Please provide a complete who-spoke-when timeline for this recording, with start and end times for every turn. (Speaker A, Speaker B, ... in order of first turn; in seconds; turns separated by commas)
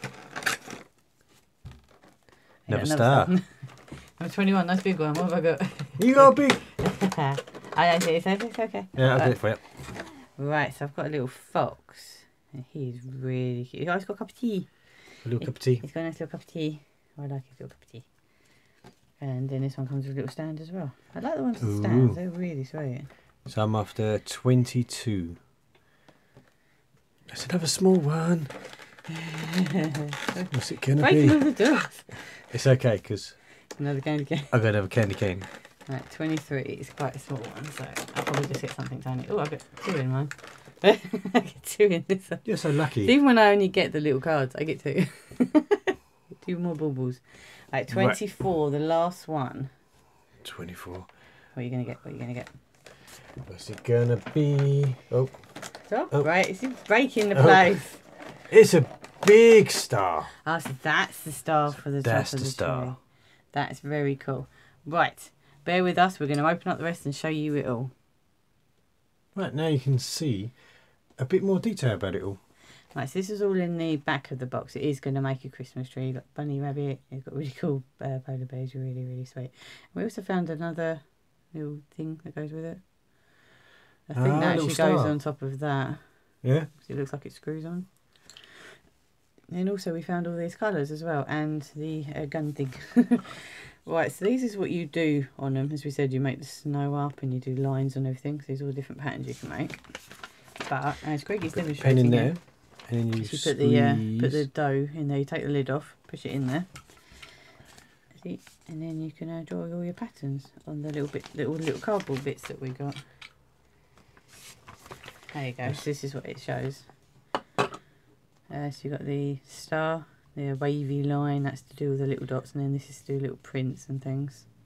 Speaker A: 2.7-18.1, Speaker B: 2.7-3.3, Speaker B: 6.0-6.6, Speaker B: 9.0-9.6, Speaker B: 15.2-15.8, Speaker A: 19.2-23.1, Speaker B: 21.6-22.2, Speaker B: 23.5-25.4, Speaker B: 27.3-28.5, Speaker A: 29.1-32.5, Speaker B: 30.5-31.7, Speaker B: 32.4-33.4, Speaker A: 33.8-34.5, Speaker B: 34.5-35.5, Speaker A: 35.9-49.7, Speaker B: 42.5-43.1, Speaker B: 47.9-48.2, Speaker B: 50.4-51.1, Speaker A: 51.5-52.5, Speaker B: 53.5-56.3, Speaker A: 55.9-58.0, Speaker B: 57.3-57.8, Speaker B: 58.5-60.3, Speaker A: 60.4-67.9, Speaker B: 61.7-63.0, Speaker B: 69.3-70.6, Speaker B: 71.2-72.4, Speaker A: 72.9-82.9, Speaker A: 84.1-88.5, Speaker B: 84.2-85.2, Speaker B: 86.4-86.7, Speaker A: 89.5-102.6, Speaker B: 101.6-104.5, Speaker A: 103.2-107.3, Speaker A: 108.1-113.0, Speaker A: 115.3-116.9, Speaker A: 118.5-124.5